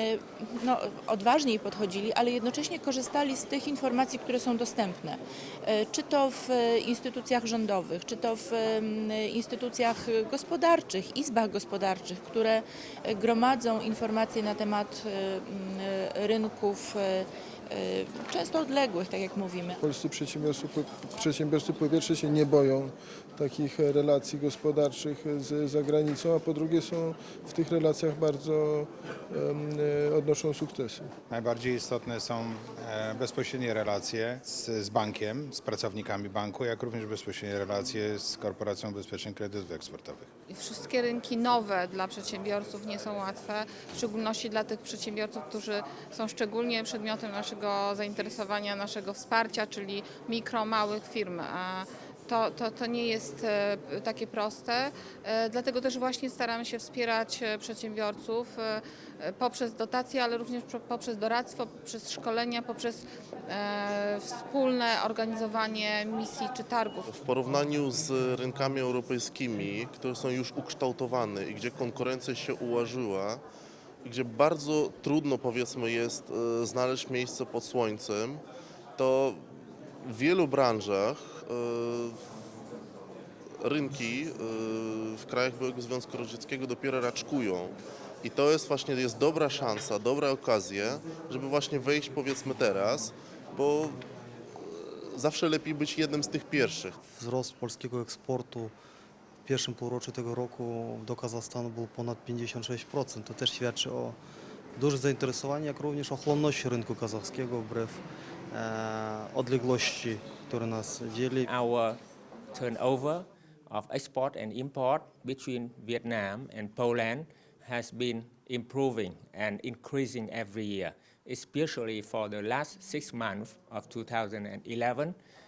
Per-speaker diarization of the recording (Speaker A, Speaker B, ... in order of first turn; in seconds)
Speaker A: 0.7-5.1, 6.0-6.3, 6.9-8.6, 9.4-9.9, 10.4-12.5, 13.3-14.8, 16.2-16.7, 18.1-19.7
Speaker B: 19.8-31.1
Speaker C: 31.3-40.3
Speaker D: 40.5-67.1
Speaker E: 67.1-73.4, 74.0-78.4, 79.0-79.4, 80.0-82.2, 83.6-94.0, 94.6-97.0
Speaker F: 97.1-98.7, 99.5-104.2, 104.8-111.5
Speaker G: 111.5-112.0, 112.5-125.1